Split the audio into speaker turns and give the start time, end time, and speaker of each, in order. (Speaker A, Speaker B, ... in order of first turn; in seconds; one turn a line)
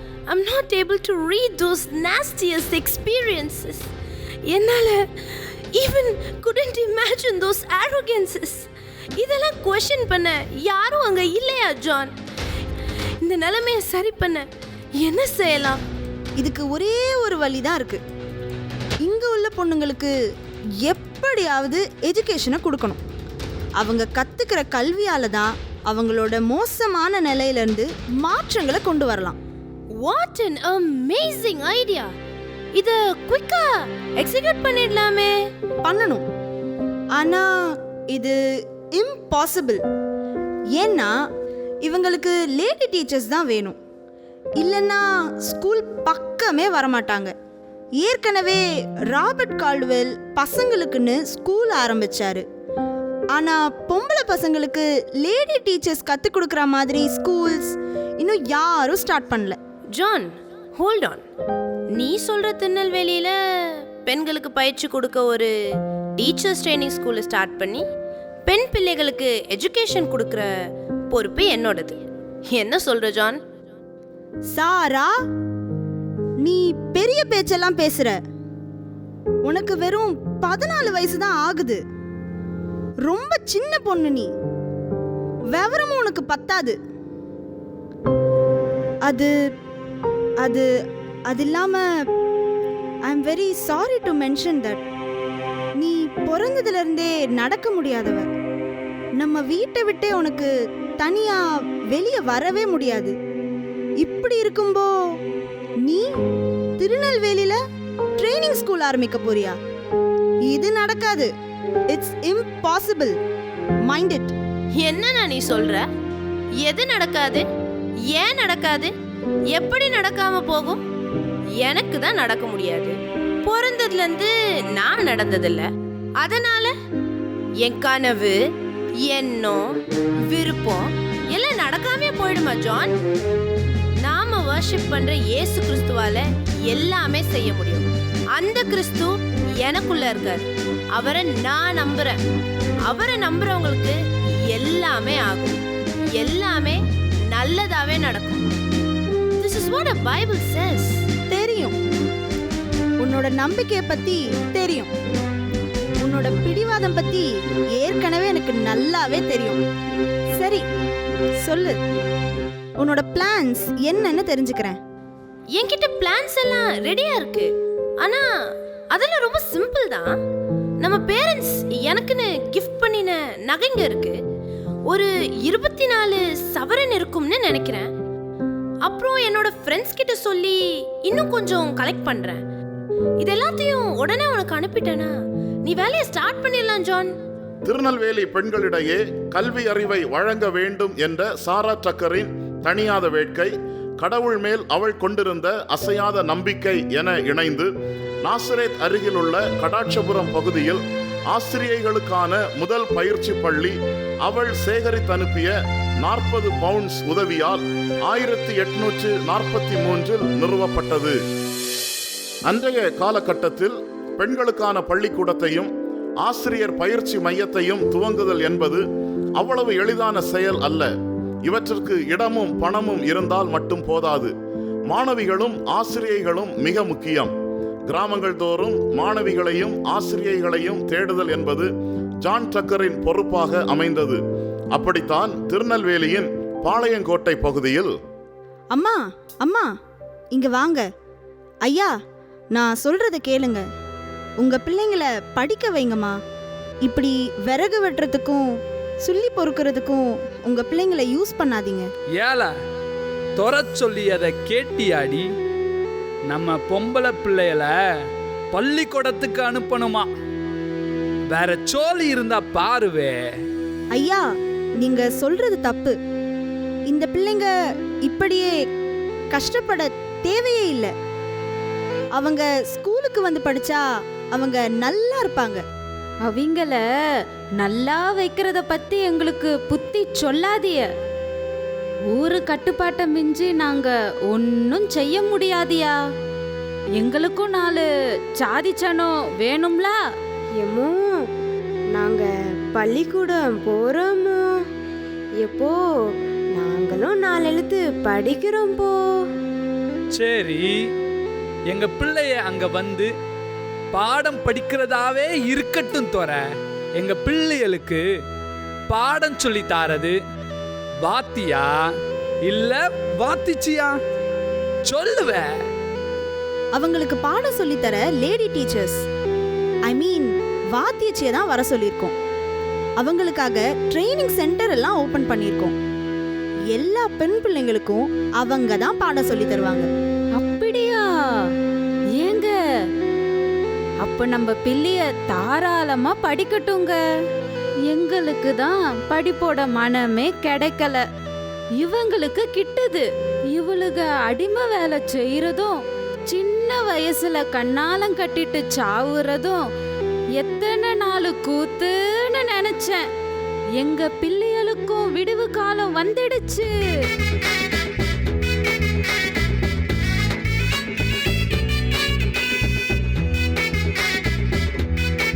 Speaker A: 0.3-3.9
Speaker A: 4.5-12.1
Speaker A: 13.2-14.4
Speaker A: 15.0-15.8
Speaker B: 16.4-18.0
Speaker B: 19.0-20.1
Speaker B: 20.8-23.0
Speaker B: 23.8-29.4
Speaker A: 30.0-32.1
Speaker A: 32.8-35.3
Speaker B: 35.8-36.2
Speaker B: 37.1-39.8
Speaker B: 40.7-41.2
Speaker B: 41.8-43.8
Speaker B: 44.6-47.3
Speaker B: 48.0-52.5
Speaker B: 53.3-59.6
Speaker A: 59.9-61.2
Speaker A: 61.9-65.5
Speaker A: 66.2-67.8
Speaker A: 68.5-70.5
Speaker A: 71.1-73.4
Speaker B: 74.5-75.2
Speaker B: 76.4-78.2
Speaker B: 79.4-81.8
Speaker B: 83.1-84.3
Speaker B: 85.5-86.8
Speaker B: 89.0-89.3
Speaker B: 90.4-90.7
Speaker B: 91.3-92.0
Speaker B: 93.1-94.8
Speaker B: 95.8-98.3
Speaker B: 99.2-103.1
Speaker B: 104.0-104.9
Speaker B: 106.8-107.6
Speaker B: 108.2-109.6
Speaker B: 110.5-111.3
Speaker B: 111.9-113.2
Speaker B: 113.9-114.3
Speaker A: 114.8-115.8
Speaker A: 116.6-117.5
Speaker A: 118.1-118.9
Speaker A: 119.5-120.8
Speaker A: 121.6-125.7
Speaker A: 126.2-126.7
Speaker A: 127.6-128.4
Speaker A: 129.0-129.8
Speaker A: 130.3-132.9
Speaker A: 134.0-142.2
Speaker A: 142.9-144.0
Speaker A: 144.5-145.6
Speaker A: 146.2-148.5
Speaker A: 149.4-151.0
Speaker B: 151.3-151.8
Speaker B: 153.0-154.9
Speaker B: 156.0-159.6
Speaker B: 160.3-160.7
Speaker B: 161.4-161.8
Speaker B: 162.8-164.8
Speaker A: 165.6-168.2
Speaker A: 168.9-170.1
Speaker A: 170.8-174.2
Speaker A: 174.9-177.9
Speaker A: 178.8-182.4
Speaker A: 183.2-185.1
Speaker A: 185.6-187.1
Speaker C: 187.7-197.7
Speaker C: 198.2-211.2
Speaker C: 212.5-215.7
Speaker C: 216.2-218.8
Speaker C: 219.4-220.9
Speaker C: 221.5-224.3
Speaker C: 224.9-227.3
Speaker C: 227.9-231.7
Speaker C: 232.2-234.2
Speaker C: 234.7-237.9
Speaker B: 238.7-239.7
Speaker B: 240.3-240.9
Speaker B: 241.6-241.9
Speaker B: 242.5-243.7
Speaker B: 244.4-246.2
Speaker B: 246.8-251.9
Speaker D: 252.2-252.5
Speaker D: 253.4-255.2
Speaker D: 256.3-257.7
Speaker D: 258.5-260.1
Speaker D: 261.3-263.2
Speaker B: 263.9-264.2
Speaker B: 264.8-265.9
Speaker B: 266.9-267.5
Speaker B: 268.0-268.5
Speaker B: 269.3-270.9
Speaker B: 272.1-275.6
Speaker E: 276.2-276.8
Speaker E: 277.6-280.9
Speaker E: 282.1-285.9
Speaker E: 287.0-287.8
Speaker E: 288.4-290.0
Speaker F: 290.6-291.3
Speaker F: 291.9-294.4
Speaker F: 295.4-295.8
Speaker F: 296.5-299.1
Speaker D: 300.1-300.8
Speaker D: 301.7-303.1
Speaker D: 303.9-306.4
Speaker D: 307.0-308.0
Speaker D: 308.9-310.1
Speaker D: 311.0-311.8
Speaker D: 312.4-313.9
Speaker D: 314.9-315.4
Speaker B: 316.8-319.1
Speaker B: 319.9-322.1
Speaker B: 323.0-325.8
Speaker B: 326.7-329.9
Speaker E: 330.4-331.5
Speaker E: 332.2-332.5
Speaker E: 334.0-337.0
Speaker E: 337.9-341.0
Speaker E: 341.8-349.7
Speaker E: 350.4-353.1
Speaker E: 353.8-356.7